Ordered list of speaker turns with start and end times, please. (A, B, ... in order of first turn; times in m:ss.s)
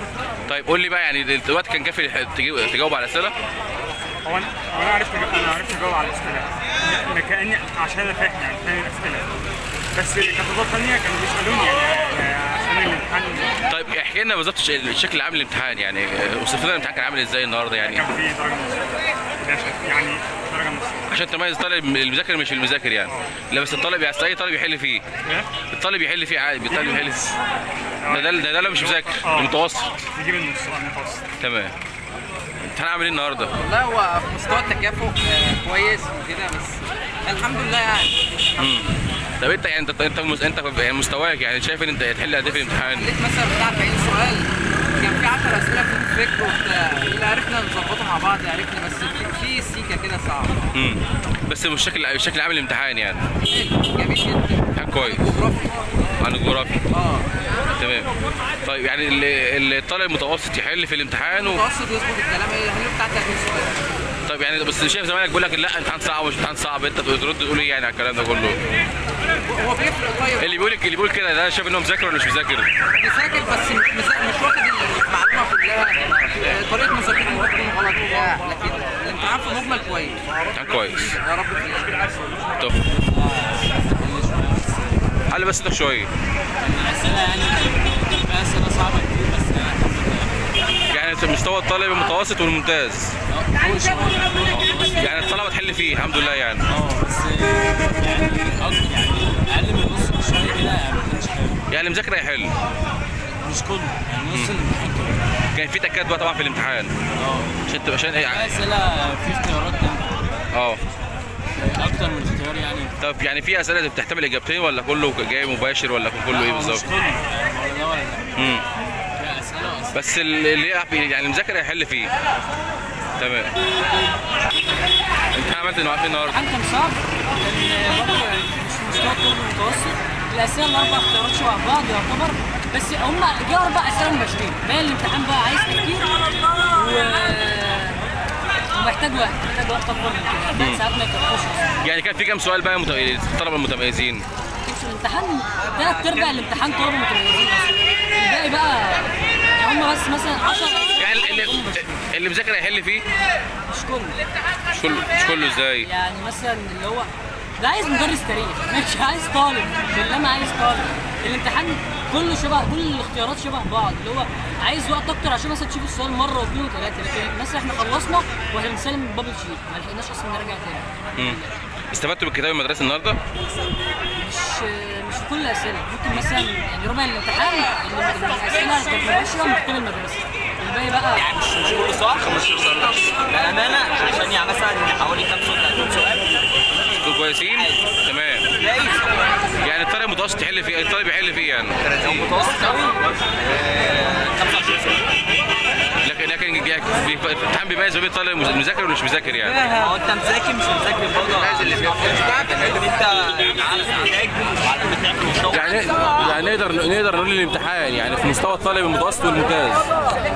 0:00.5-0:03.4 A
0:04.2-0:09.3 B
0:09.9-0:13.6 B
0:13.7-0:18.0 A
0:17.9-0:21.0 B
0:21.1-0:25.0 A
0:25.7-0:27.4 A
0:26.7-0:27.0 B
0:28.0-0:29.5 B
0:28.1-0:29.9 A
0:30.2-0:31.3 B
0:31.4-0:31.7 A
0:32.6-0:33.5 A
0:33.6-0:38.2 C
0:38.6-0:43.1 A
0:42.5-0:50.6 C
0:50.7-0:53.2 A
0:53.4-0:55.9 C
0:54.8-0:55.4 A
0:56.2-0:56.8 A
0:56.9-0:57.3 C
0:57.8-0:58.1 A
0:58.6-1:01.6 A
1:01.5-1:03.8 C
1:04.3-1:08.6 A
1:09.4-1:10.5 C
1:10.4-1:12.7 A
1:12.9-1:20.2 C
1:20.5-1:21.2 A
1:21.1-1:22.2 C
1:22.8-1:25.0 D
1:25.3-1:26.1 A
1:26.6-1:30.5 D
1:30.9-1:33.2 A
1:33.3-1:35.1 D
1:34.5-1:36.6 A
1:36.7-1:41.7 D
1:41.7-1:42.5 A
1:43.4-1:45.2 D
1:44.3-1:44.6 A
1:45.5-1:46.9 A
1:47.2-1:47.6 D
1:47.7-1:48.6 A
1:48.3-1:50.3 D
1:50.5-1:50.8 A
1:51.6-1:53.0 D
1:53.0-1:56.9 A
1:56.3-1:58.3 D
1:58.4-1:58.6 A
1:59.2-2:00.0 D
1:59.9-2:02.1 A
2:03.2-2:03.5 A
2:05.3-2:06.4 A
2:06.3-2:18.0 E
2:18.7-2:21.7 E
2:20.6-2:20.8 A
2:21.8-2:24.2 A
2:24.6-2:32.0 E
2:31.0-2:33.0 A
2:33.7-2:34.2 E
2:34.7-2:35.9 A
2:35.8-2:51.4 E
2:51.9-2:53.2 A
2:54.2-3:01.4 E
3:01.3-3:02.2 F
3:02.1-3:03.3 A
3:03.2-3:06.2 F
3:06.9-3:08.5 A
3:08.6-3:09.3 F
3:09.6-3:12.0 A
3:11.9-3:15.0 F
3:16.0-3:19.7 A
3:19.5-3:20.0 C
3:19.8-3:25.6 F
3:25.5-3:29.9 A